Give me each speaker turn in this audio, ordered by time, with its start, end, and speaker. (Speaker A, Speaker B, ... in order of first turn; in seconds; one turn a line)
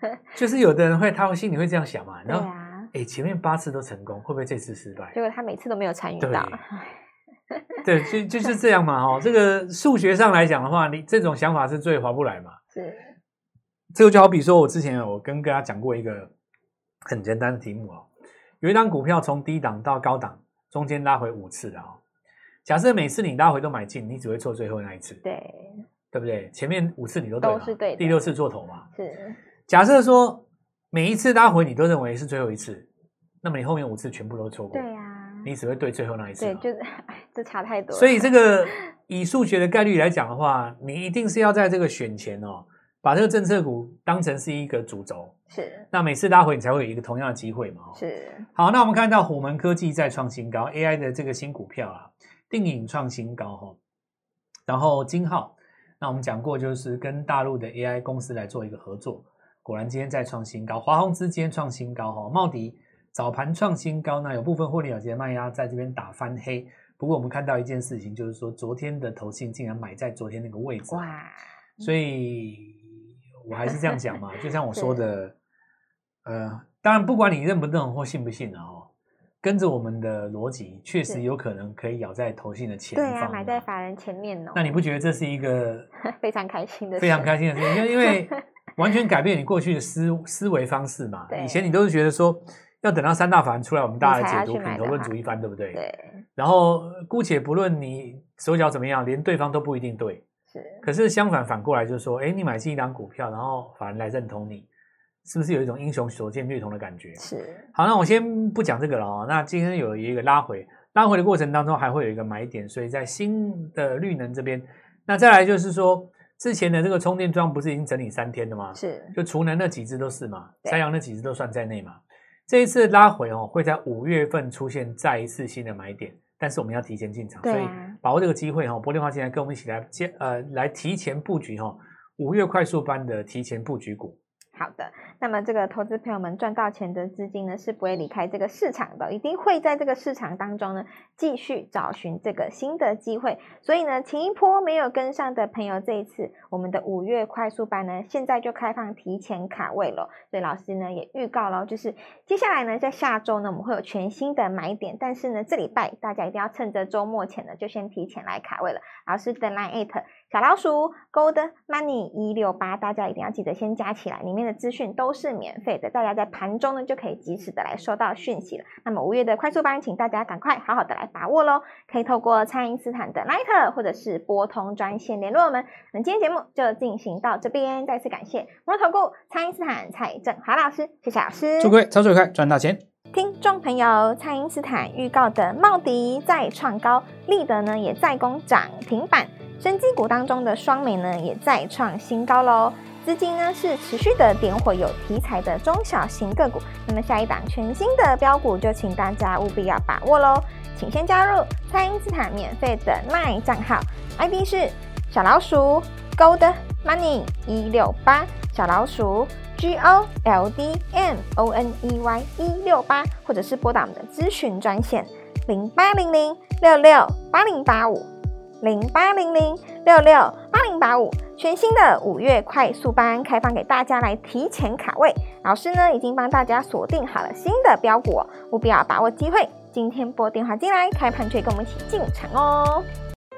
Speaker A: 0.3-5.2
Speaker B: 2.3-2.9
Speaker B: 5.1-7.0
Speaker A: 6.2-6.6
Speaker B: 7.5-7.8
Speaker A: 7.8-12.6
Speaker B: 12.7-13.1
Speaker A: 13.9-16.3
Speaker A: 17.0-18.1
Speaker A: 18.6-22.0
Speaker A: 22.6-25.2
Speaker B: 25.2-25.8
Speaker A: 26.1-28.9
Speaker B: 27.4-28.2
Speaker B: 28.9-29.4
Speaker A: 29.7-32.9
Speaker A: 33.4-34.9
Speaker B: 34.7-35.5
Speaker A: 35.4-36.6
Speaker B: 36.4-38.7
Speaker A: 37.9-45.3
Speaker B: 45.5-45.9
Speaker A: 45.9-48.0
Speaker B: 47.9-48.5
Speaker A: 48.5-53.8
Speaker A: 54.7-71.1
Speaker B: 70.9-71.8
Speaker A: 71.8-72.9
Speaker A: 73.5-75.3
Speaker B: 74.7-75.0
Speaker A: 76.2-78.9
Speaker A: 79.4-83.6
Speaker B: 82.9-84.8
Speaker A: 84.5-85.9
Speaker B: 86.0-88.4
Speaker A: 87.0-95.8
Speaker B: 91.3-91.7
Speaker B: 94.0-95.2
Speaker B: 95.7-96.2
Speaker A: 96.4-100.2
Speaker B: 100.5-100.9
Speaker A: 100.8-104.7
Speaker A: 105.2-107.2
Speaker B: 107.2-107.7
Speaker A: 107.7-134.2
Speaker B: 118.7-119.2
Speaker B: 127.4-128.0
Speaker B: 134.5-181.8
Speaker A: 181.6-182.8
Speaker B: 183.1-218.1
Speaker B: 218.6-232.8